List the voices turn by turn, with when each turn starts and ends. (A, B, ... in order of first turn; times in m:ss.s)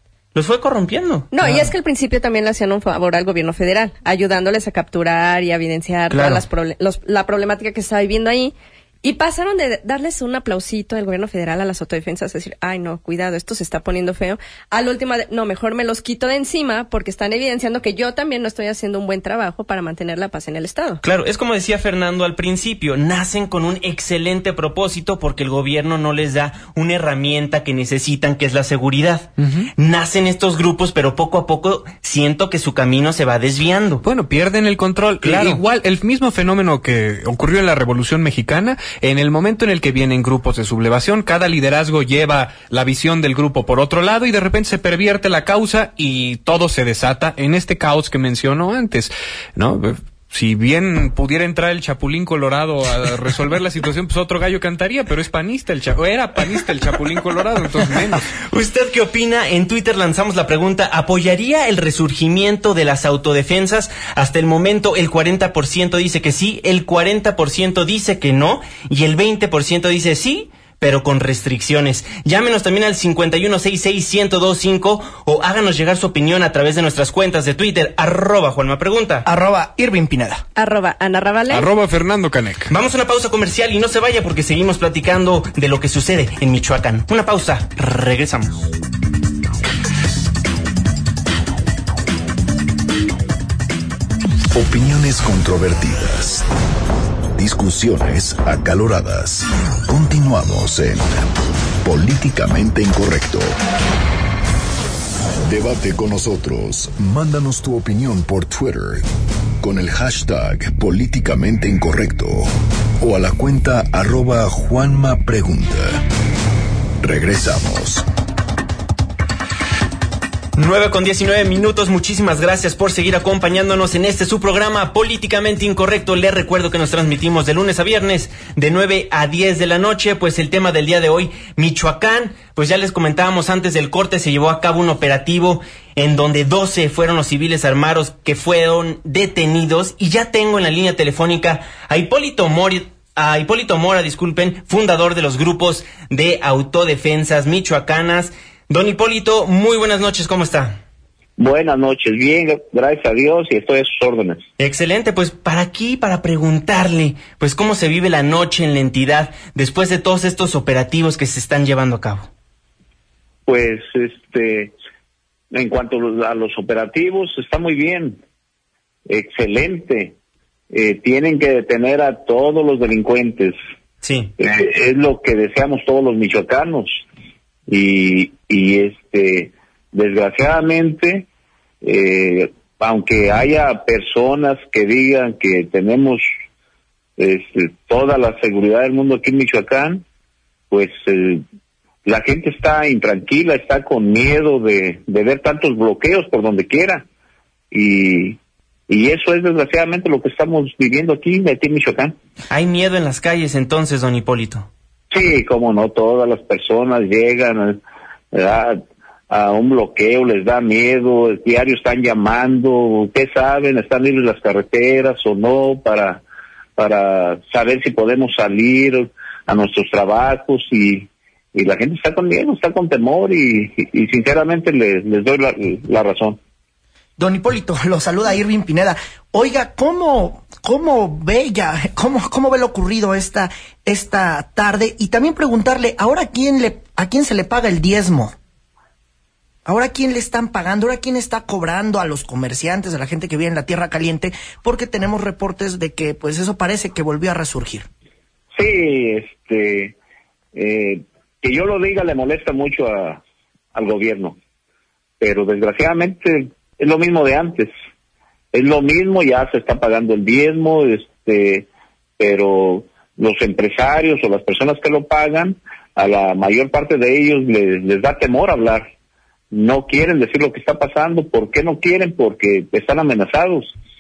0:00.3-0:01.7 A
0:01.3-0:21.0 B
0:06.1-0:06.4 A
0:21.0-0:34.0 A
0:29.4-0:29.7 C
0:34.0-0:58.3 C
0:35.2-0:35.6 A
0:58.4-1:19.3 A
1:19.2-1:20.4 D
1:20.6-1:21.7 B
1:21.5-1:22.7 C
1:22.7-1:28.7 A
1:34.5-1:36.5 E
1:37.4-1:41.3 E
1:41.8-1:43.6 E
1:45.4-1:49.0 E
1:49.6-1:56.0 E
1:57.0-1:58.1 E
2:00.6-2:30.8 A
2:31.4-2:34.5 F
2:34.6-2:42.3 A
2:43.5-2:44.8 F
2:45.5-2:48.2 F
2:49.1-2:50.2 F
2:50.7-2:53.6 F
2:54.0-2:54.3 A
2:54.4-2:57.0 F
2:57.7-3:01.3 F
3:01.8-3:06.2 F
3:07.2-3:10.0 F
3:10.7-3:11.4 F
3:12.0-3:17.1 F
3:17.7-3:18.4 F
3:18.9-3:22.2 F
3:22.5-3:24.7 A
3:25.1-3:27.8 F
3:28.3-3:36.2 F
3:36.8-3:46.4 F
3:47.2-3:58.4 D
3:59.6-4:07.9 D
4:08.6-4:10.0 F
4:10.5-4:13.2 F
4:13.7-4:14.4 F
4:15.2-4:17.7 F
4:18.5-4:21.7 F
4:22.2-4:28.9 F
4:29.5-4:33.8 F